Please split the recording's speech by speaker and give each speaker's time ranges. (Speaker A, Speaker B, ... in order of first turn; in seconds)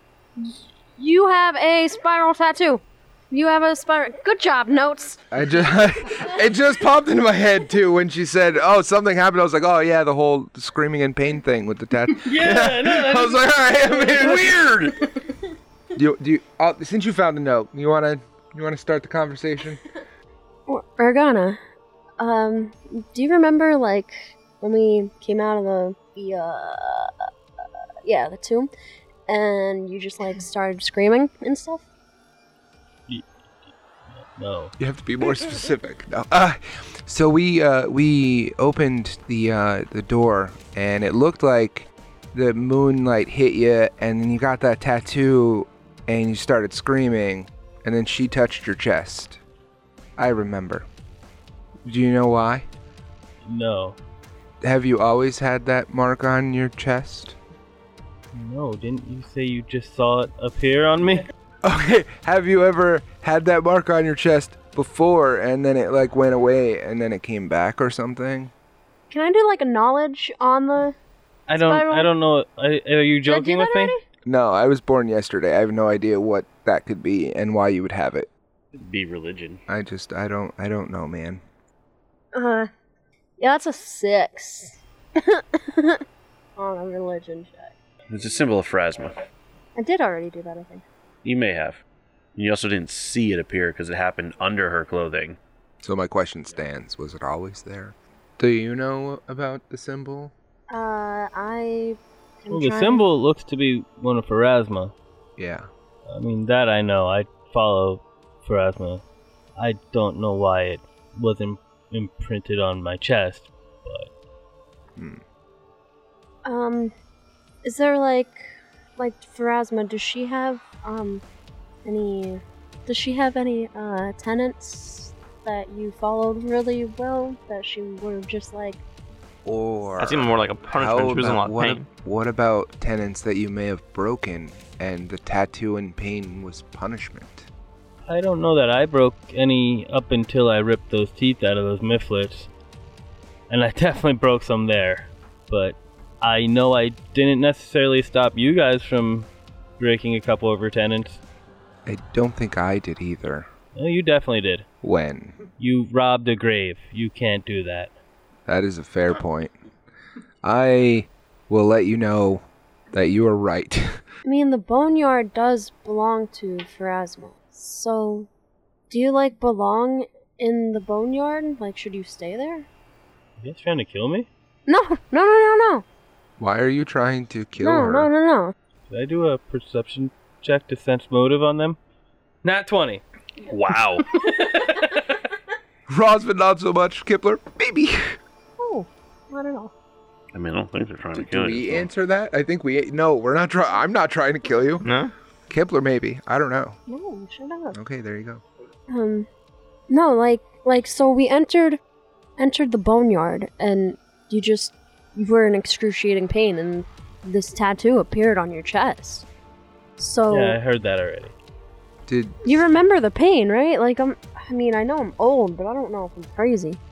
Speaker A: 0.4-5.2, 20.7-21.6, 22.2-27.1, 28.1-28.7, 29.3-31.9, 69.1-71.0, 71.5-72.1, 73.3-74.0, 82.3-82.7, 83.4-86.0, 86.6-87.7, 89.8-90.8, 100.7-103.0, 116.5-116.9, 117.6-121.2, 121.8-128.8, 164.2-168.3, 168.9-172.7, 174.7-175.8, 177.6-178.5, 188.6-189.7, 196.9-197.8, 198.9-199.3, 199.9-201.8, 202.4-209.3, 210.0-210.6, 212.4-216.8
Speaker B: 5.3-15.0, 15.9-19.8, 34.8-49.4, 50.2-50.9, 51.9-52.7, 54.6-57.4, 61.6-68.5, 74.3-78.3, 79.7-81.4, 95.8-100.3, 105.4-105.7, 115.0-115.2, 129.4-137.5, 151.9-153.5, 154.8-155.4, 158.5-159.5, 160.4-164.0, 176.4-178.1, 185.9-188.2, 191.2-194.9, 195.5-196.8, 197.7-198.4, 212.1-212.4
Speaker C: 12.2-14.5, 34.1-34.7, 53.4-54.0, 58.3-61.2, 71.5-73.9, 102.5-104.9, 106.1-109.0, 109.6-114.1, 138.1-142.5, 143.5-151.2, 153.8-154.7, 155.6-157.9, 173.4-174.3, 178.9-181.8, 182.4-183.0, 184.2-185.0, 210.3-211.3
Speaker D: 78.7-79.6, 88.1-89.1, 91.2-91.8, 92.4-95.4, 183.5-184.1, 190.3-191.9
Speaker E: 130.0-131.9, 194.8-195.1